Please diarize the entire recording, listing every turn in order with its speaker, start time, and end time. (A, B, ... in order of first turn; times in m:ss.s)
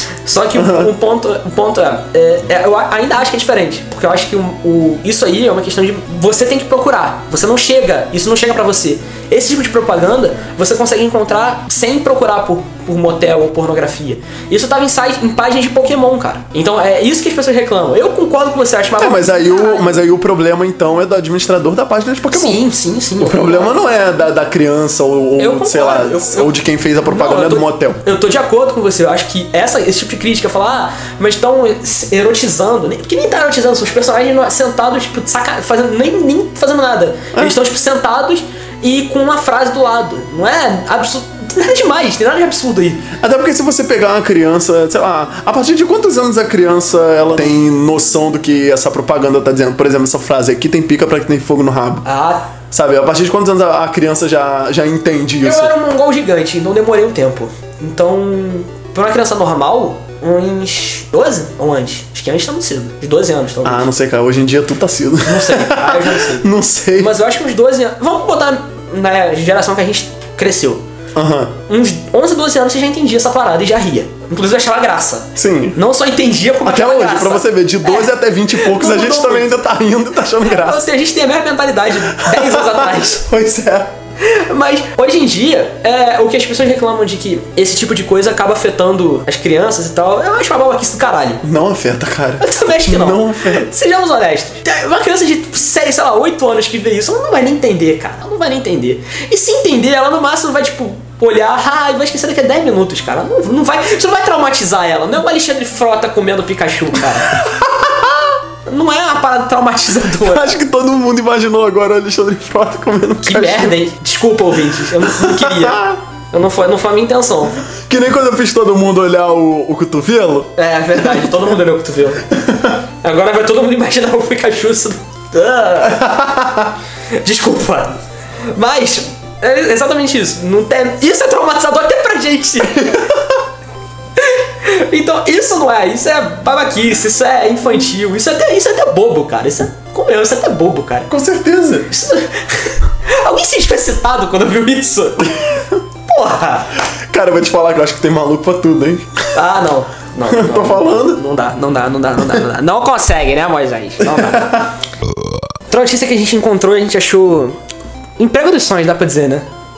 0:00.2-0:20.0 A
0:00.6-0:00.9 B
0:19.0-0:22.6 B
0:22.3-0:23.8 A
0:23.2-0:28.0 B
0:25.4-0:43.1 A
0:43.2-0:52.0 B
0:52.0-0:52.5 A
0:52.7-0:55.7 B
0:55.4-1:03.9 A
1:03.6-1:07.1 B
1:05.3-1:06.5 A
1:07.0-1:10.8 A
1:11.2-1:11.6 B
1:11.7-1:19.6 A
1:15.4-1:15.8 B
1:16.6-1:20.8 B
1:20.4-1:23.2 A
1:22.0-1:23.9 B
1:24.2-1:31.4 A
1:31.4-1:33.7 B
1:32.4-1:47.4 A
1:47.8-1:48.1 B
1:48.7-1:50.6 A
1:50.1-1:53.8 B
1:53.2-1:57.6 A
1:55.0-1:56.0 B
1:57.9-2:01.4 B
2:00.6-2:02.3 A
2:02.4-2:02.7 B
2:03.0-2:06.2 A
2:06.0-2:06.4 B
2:07.2-2:08.0 A
2:08.5-2:13.1 A
2:14.2-2:21.1 A
2:21.1-2:21.9 B
2:21.9-2:25.4 A
2:26.1-2:26.7 A
2:27.1-2:29.2 B
2:29.3-2:34.6 A
2:30.3-2:31.2 B
2:34.0-2:34.7 B
2:35.7-2:37.6 A
2:38.2-2:39.5 A